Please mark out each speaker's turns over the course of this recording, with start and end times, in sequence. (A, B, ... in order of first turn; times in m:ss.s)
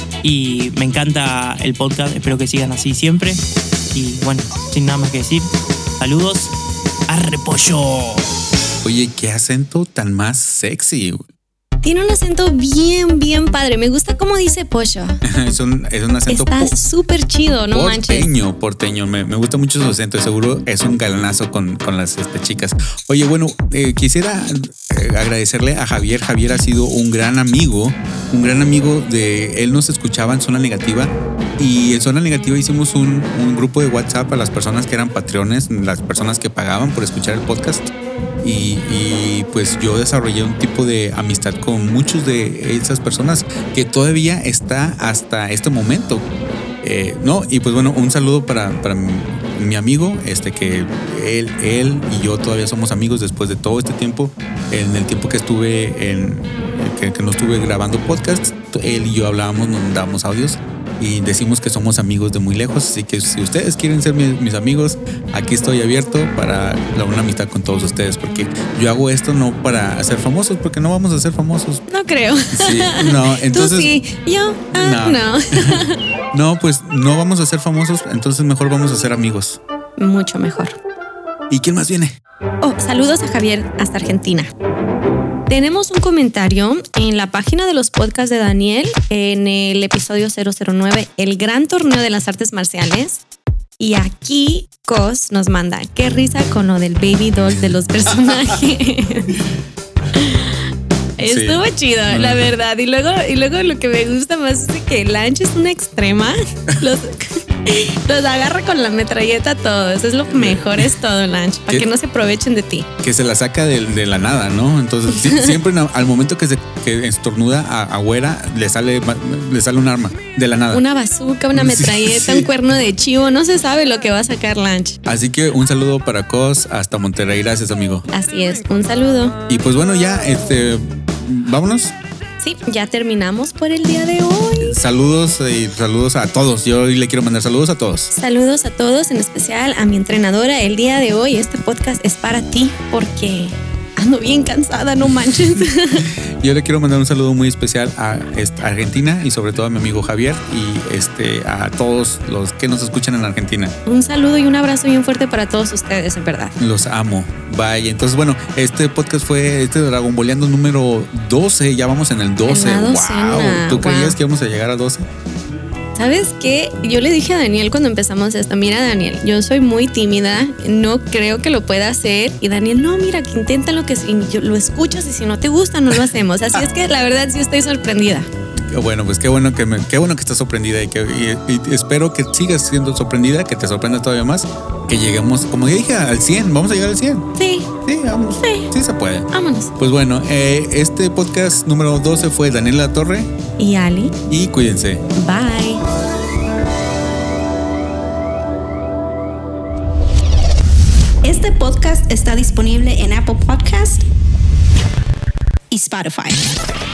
0:00.2-0:03.4 A
0:03.9-0:05.5 A
0:06.0-0:06.5 A
0:07.1-0:08.3 A
0:08.8-0:11.2 B
0:11.8-0:15.2 C
0:15.2-0:16.8 B
0:16.3-0:18.3 C
0:17.7-0:37.9 B
0:38.4-0:46.2 B
0:46.8-1:11.8 B
1:11.9-1:16.0 C
1:12.5-1:14.0 B
1:14.7-1:15.8 B
1:16.3-1:19.6 B
1:20.0-1:20.8 C
1:21.5-1:22.2 B
1:22.6-1:24.5 C
1:25.5-1:33.2 C
1:33.8-1:39.3 C
1:40.1-1:40.6 C
1:41.2-1:52.9 C
1:41.2-1:42.5 B
1:50.3-1:50.9 B
1:53.0-2:00.8 B
1:55.1-1:55.6 C
2:00.7-2:05.0 C
2:01.5-2:02.5 B
2:05.0-2:08.1 B
2:08.1-2:09.3 C
2:09.5-2:11.9 B
2:12.4-2:14.7 C
2:14.6-2:18.1 B
2:18.1-2:26.0 C
2:26.0-2:33.7 B
2:33.8-2:36.5 C
2:36.6-2:45.1 B
2:42.5-2:44.2 C
2:45.9-2:58.3 C
2:58.7-3:07.3 B
3:07.4-3:07.7 C
3:07.8-3:13.3 B
3:08.4-3:08.7 C
3:09.3-3:09.7 C
3:13.6-3:14.1 C
3:14.3-3:15.0 B
3:15.2-3:15.8 C
3:21.2-3:24.0 D
3:25.7-3:26.6 D